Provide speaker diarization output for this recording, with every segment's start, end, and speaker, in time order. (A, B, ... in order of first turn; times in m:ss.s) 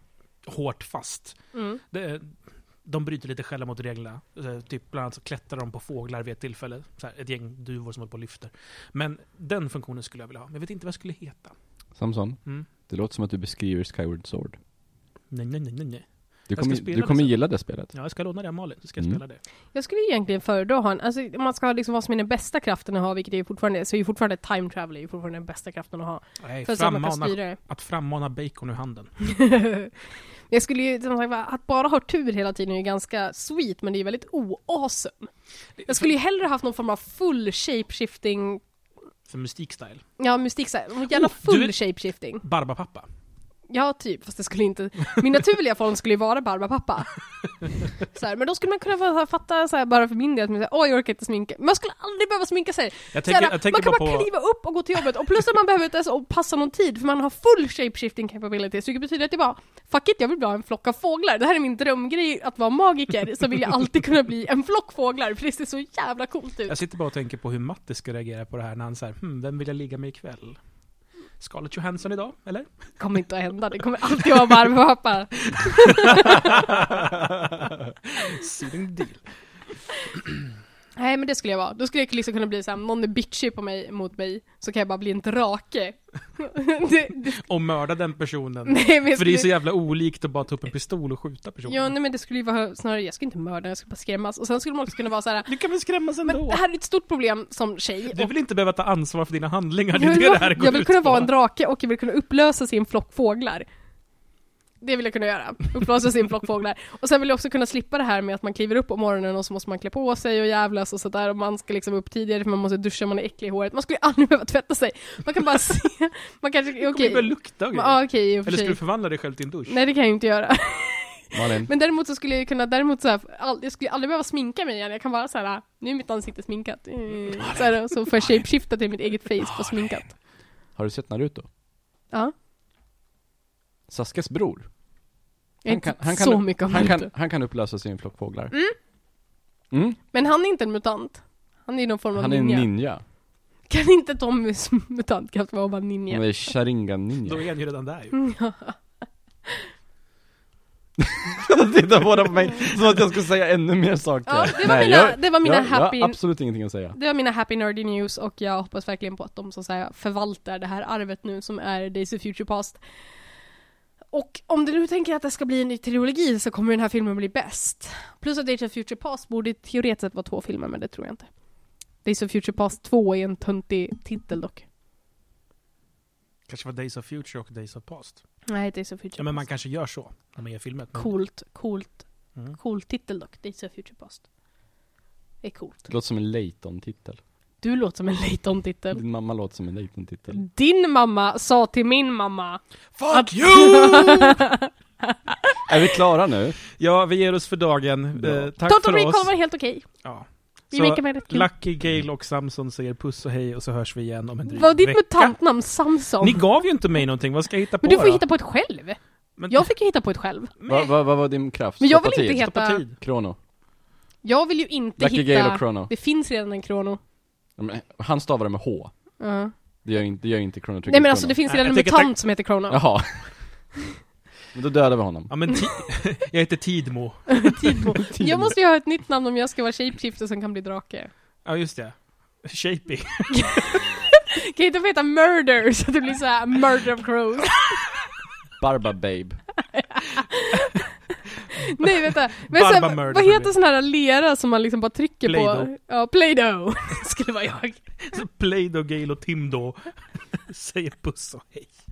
0:00.4-0:01.4 A
0:01.5-0:01.8 B
0:01.9-0:11.6 A
0:12.0-0:14.6 C
0:15.3-0:17.3 A
0:16.5-0:17.9 C
0:17.9-0:19.4 A
0:19.7-0:27.6 B
0:26.4-0:29.1 A
0:29.2-0:29.9 B
0:30.5-0:35.3 B
0:35.8-0:36.1 A
0:35.9-0:38.6 B
0:39.3-0:40.0 A
0:40.2-0:42.4 B
0:41.1-0:41.8 A
0:42.4-0:43.1 A
0:43.7-0:47.2 B
0:48.0-1:06.8 B
0:53.1-0:54.3 A
1:06.7-1:10.6 A
1:11.4-1:12.7 A
1:13.0-1:16.7 B
1:16.0-1:19.2 A
1:21.0-1:27.4 B
1:27.4-1:31.9 A
1:28.7-1:29.5 B
1:31.7-1:35.5 B
1:35.5-1:36.6 A
1:36.2-1:38.3 B
1:38.1-1:41.3 A
1:39.9-1:43.7 B
1:44.8-1:58.8 B
1:56.8-1:59.8 A
1:59.7-2:10.1 B
2:01.3-2:01.7 C
2:07.4-2:08.4 A
2:10.8-2:11.5 C
2:13.9-2:14.7 C
2:15.6-2:17.1 B
2:15.7-2:18.5 C
2:19.7-2:20.0 C
2:20.1-2:22.7 B
2:22.2-2:23.0 C
2:23.7-2:26.5 B
2:26.1-2:27.5 C
2:27.2-2:28.2 A
2:28.1-2:28.8 B
2:31.0-2:37.0 C
2:34.3-2:36.2 B
2:36.9-2:42.8 B
2:44.1-2:51.3 B
2:52.0-2:54.6 B
2:56.5-2:58.2 A
2:58.5-2:59.4 B
2:59.2-3:01.1 A
3:01.0-3:04.2 B
3:05.4-3:05.9 B
3:05.9-3:07.2 C
3:07.6-3:09.0 B
3:08.9-3:10.4 C
3:10.3-3:15.7 B
3:13.1-3:14.1 C
3:15.7-3:16.6 C
3:16.7-3:19.3 A
3:18.2-3:18.5 C
3:18.7-3:19.9 B
3:20.0-3:25.4 A
3:20.7-3:21.5 B
3:24.5-3:26.4 B
3:26.2-3:28.2 A
3:27.8-3:30.5 B
3:29.4-3:29.7 A
3:30.6-3:30.9 A
3:30.7-3:33.4 C
3:31.8-3:32.8 B
3:32.4-3:33.0 A
3:34.2-3:37.0 B
3:35.0-3:35.9 C
3:37.6-3:38.9 C
3:39.2-3:39.5 B
3:39.8-3:41.4 C
3:40.9-3:42.8 B
3:41.5-3:42.1 A
3:42.7-3:43.3 C
3:44.5-3:45.3 C
3:45.3-3:48.0 A
3:47.3-3:51.1 B
3:48.1-3:48.5 C
3:51.4-3:53.8 A
3:53.4-3:57.9 B
3:58.6-3:59.4 C
3:59.6-4:00.9 B
4:01.6-4:07.9 B
4:01.6-4:03.5 A
4:05.3-4:05.7 A
4:08.1-4:11.7 A